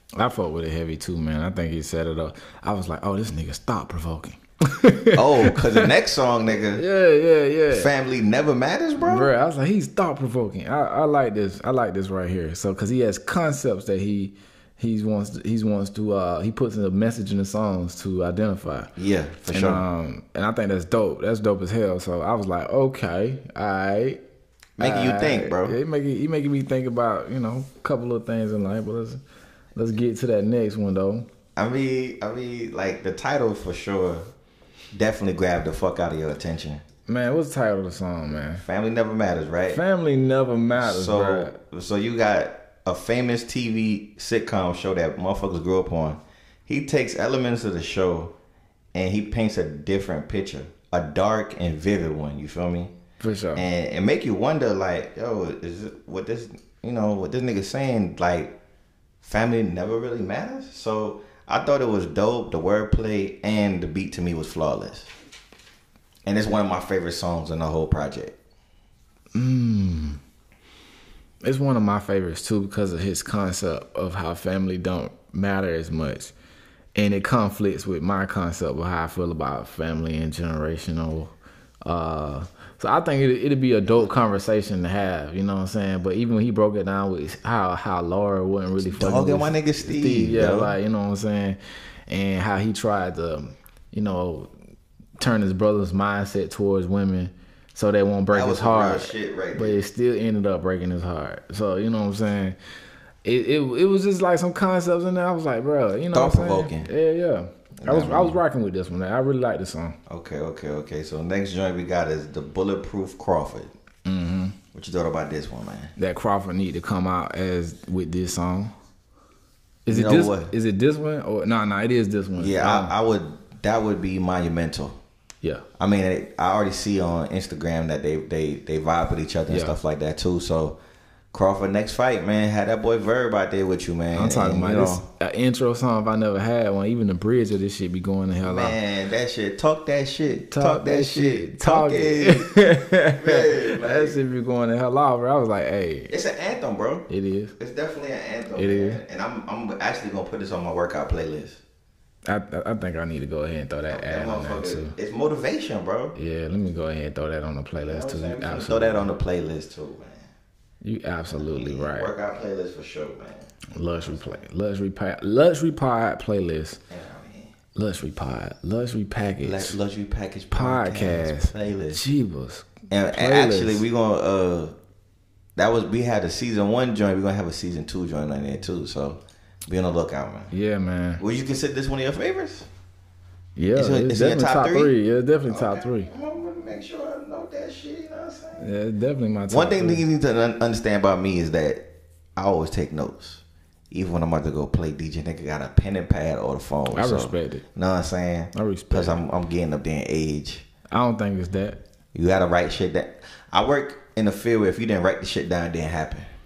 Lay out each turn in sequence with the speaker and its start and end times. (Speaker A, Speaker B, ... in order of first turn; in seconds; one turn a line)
Speaker A: 0.2-5.9
Speaker B: 5.2-6.8
Speaker A: 6.7-7.9
Speaker B: 7.7-9.3
Speaker A: 9.0-18.9
Speaker B: 19.0-19.9
Speaker A: 19.5-24.2
Speaker B: 24.8-25.8
Speaker A: 24.8-29.2
Speaker A: 29.8-31.3
Speaker B: 31.6-34.3
Speaker B: 34.9-36.8
Speaker A: 37.1-38.6
Speaker B: 38.6-39.8
Speaker A: 39.7-41.5
Speaker B: 40.8-48.3
Speaker B: 48.9-52.9
Speaker A: 53.2-53.6
Speaker B: 53.5-58.5
Speaker B: 59.2-65.1
Speaker B: 66.3-68.4
Speaker A: 69.3-70.2
Speaker A: 71.4-76.3
Speaker A: 77.0-81.3
Speaker A: 81.8-94.5
Speaker B: 89.0-90.8
Speaker A: 95.2-102.6
Speaker B: 98.3-99.8
Speaker A: 103.2-110.0
Speaker B: 106.1-106.9
Speaker B: 107.8-108.4
Speaker B: 110.1-113.7
Speaker A: 114.1-114.6
Speaker B: 114.7-115.9
Speaker A: 116.0-118.7
Speaker A: 119.9-122.9
Speaker B: 119.9-120.5
Speaker B: 122.4-125.0
Speaker B: 125.8-130.8
Speaker A: 129.5-129.8
Speaker B: 131.3-135.0
Speaker A: 134.1-138.8
Speaker B: 138.4-144.2
Speaker A: 140.5-146.1
Speaker B: 146.1-151.6
Speaker A: 147.1-147.5
Speaker A: 148.6-149.0
Speaker A: 152.3-154.9
Speaker B: 153.9-156.2
Speaker A: 156.2-159.1
Speaker B: 157.8-160.3
Speaker A: 160.8-162.1
Speaker B: 161.3-163.5
Speaker A: 163.7-166.8
Speaker B: 164.1-164.4
Speaker B: 166.9-167.6
Speaker A: 167.8-169.8
Speaker B: 169.4-172.0
Speaker A: 170.5-173.8
Speaker B: 172.9-174.8
Speaker B: 175.6-180.5
Speaker A: 180.5-181.2
Speaker B: 181.2-182.7
Speaker A: 183.6-186.1
Speaker B: 183.7-184.9
Speaker B: 185.5-188.7
Speaker A: 188.6-190.0
Speaker B: 189.5-200.7
Speaker A: 196.9-197.6
Speaker A: 198.5-199.2
Speaker A: 200.9-201.8
Speaker B: 202.1-206.3